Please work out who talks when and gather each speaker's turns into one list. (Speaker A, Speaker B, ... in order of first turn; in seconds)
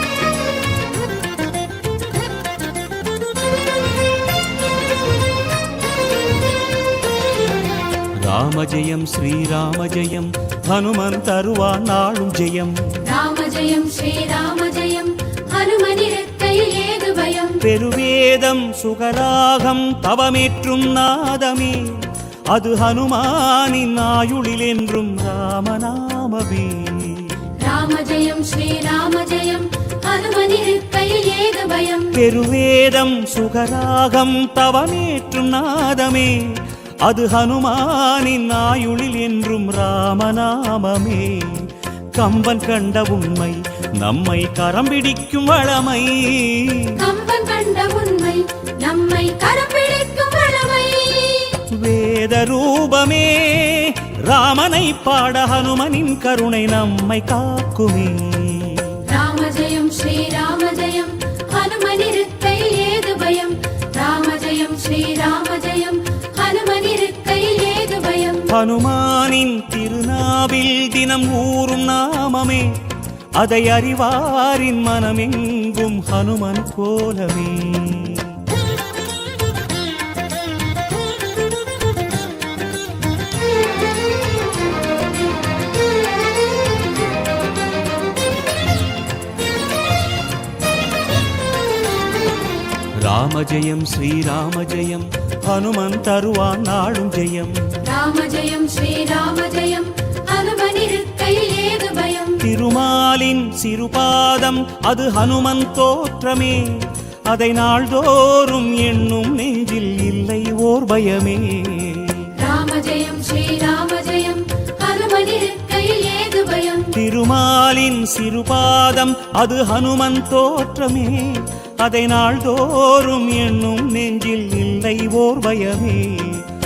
Speaker A: 8.2-12.8, 17.6-27.3, 32.1-36.5, 37.0-46.9, 51.7-59.0, 68.5-72.7, 73.4-78.3, 93.0-97.6, 102.4-112.3, 116.9-126.4
Speaker B: 13.0-17.6, 27.6-32.1, 47.0-51.6, 59.0-68.5, 97.8-102.4, 112.3-116.9